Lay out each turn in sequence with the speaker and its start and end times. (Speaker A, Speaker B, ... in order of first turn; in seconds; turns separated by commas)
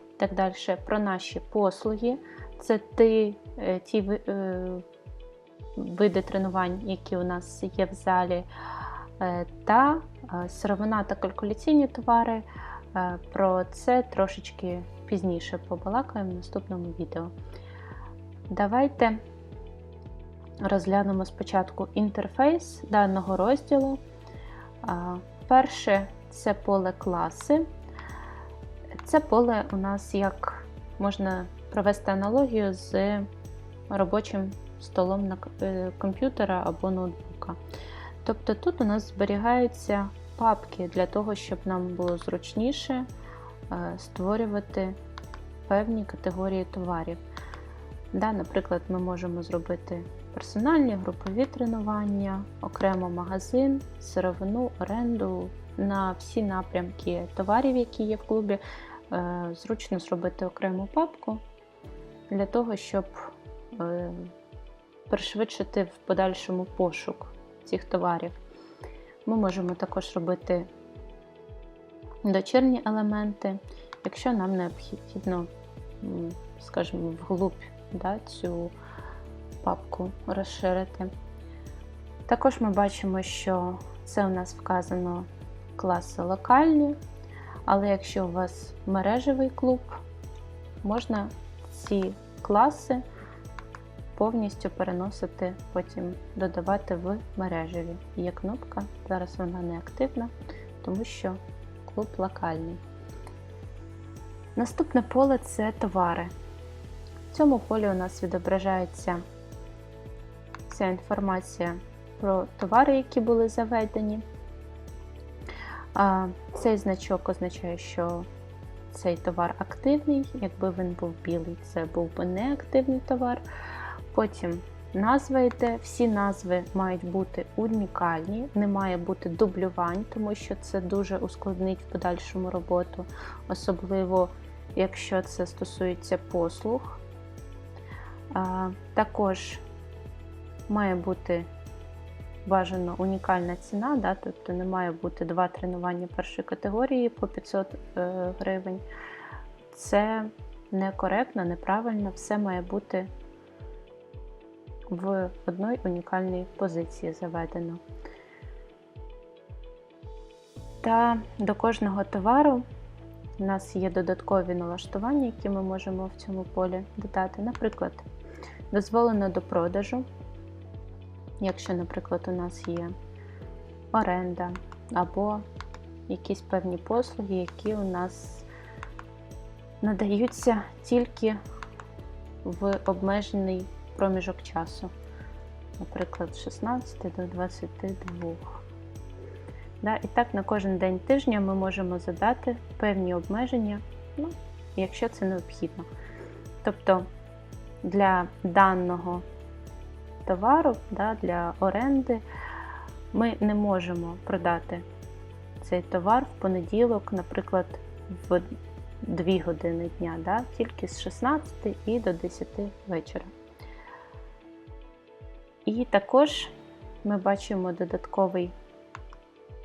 Speaker A: 0.2-4.8, Speaker A: 5.8-8.5, Speaker A: 9.2-17.3, Speaker A: 18.5-19.2, Speaker A: 20.6-24.0, Speaker A: 24.8-27.7, Speaker A: 29.0-33.3, Speaker A: 33.9-37.6, Speaker A: 38.2-43.1, Speaker A: 43.7-45.0, Speaker A: 45.6-47.2, Speaker A: 48.1-61.4, Speaker A: 62.3-64.3, Speaker A: 65.1-68.4, Speaker A: 69.2-70.7, Speaker A: 72.2-78.7, Speaker A: 79.6-81.1, Speaker A: 82.3-87.0, Speaker A: 87.7-90.0, Speaker A: 90.8-93.0, Speaker A: 94.1-102.8, Speaker A: 104.5-106.3, Speaker A: 107.3-109.2, Speaker A: 110.7-114.2, Speaker A: 115.9-118.3, Speaker A: 118.9-123.4, Speaker A: 124.1-137.0, Speaker A: 138.3-139.6, Speaker A: 140.7-141.5, Speaker A: 142.4-148.8, Speaker A: 149.7-153.1, Speaker A: 154.9-157.8, Speaker A: 160.8-162.6, Speaker A: 163.4-168.0, Speaker A: 168.7-170.1, Speaker A: 171.4-172.9, Speaker A: 173.9-175.4, Speaker A: 176.1-178.5, Speaker A: 179.8-181.4, Speaker A: 182.4-184.9, Speaker A: 185.8-188.6, Speaker A: 189.8-195.9, Speaker A: 196.6-197.1, Speaker A: 197.8-199.2, Speaker A: 200.2-202.2, Speaker A: 203.1-204.8, Speaker A: 205.6-213.3, Speaker A: 215.7-218.5